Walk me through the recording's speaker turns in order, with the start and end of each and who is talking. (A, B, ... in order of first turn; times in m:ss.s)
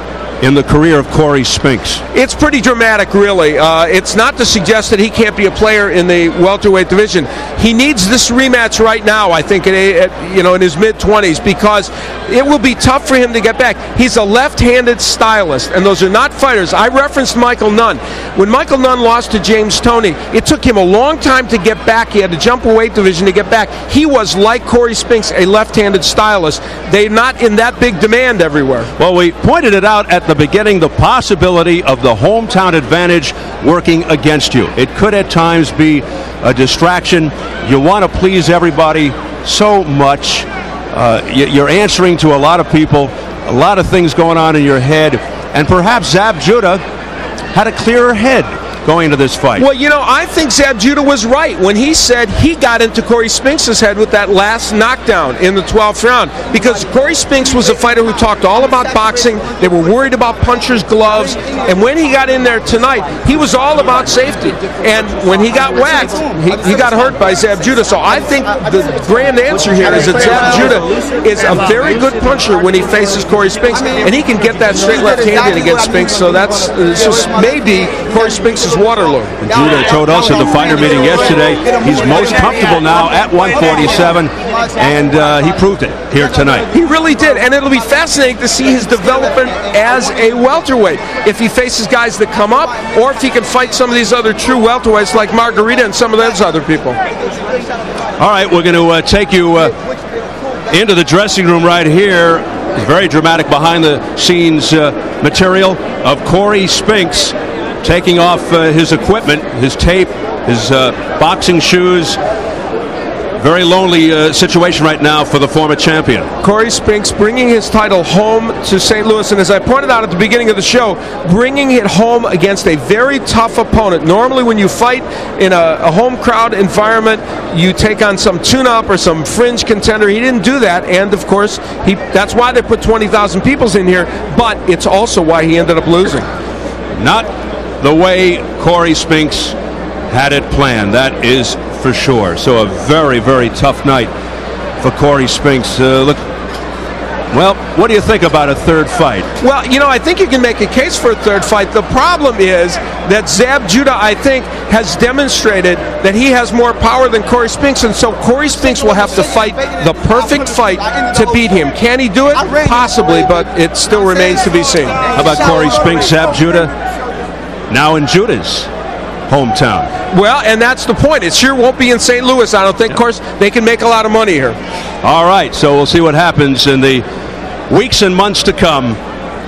0:00.4-0:02.0 A
0:02.1-0:28.9 B
0:29.0-0:46.8 A
0:47.5-0:49.7 A
0:49.6-1:19.3 B
1:19.4-1:26.7 A
1:26.7-1:37.0 B
1:38.2-1:39.7 A
1:40.7-1:52.2 A
1:53.4-1:56.3 A
1:56.4-2:16.3 B
2:17.0-2:19.5 A
2:20.1-2:24.1 A
2:24.8-2:26.2 A
2:27.3-2:29.3 A
2:29.4-2:45.1 B
2:45.1-2:46.7 A
2:47.7-2:48.7 A
2:49.3-2:49.9 A
2:50.1-2:54.6 B
2:55.0-2:57.0 A
2:57.7-2:59.0 A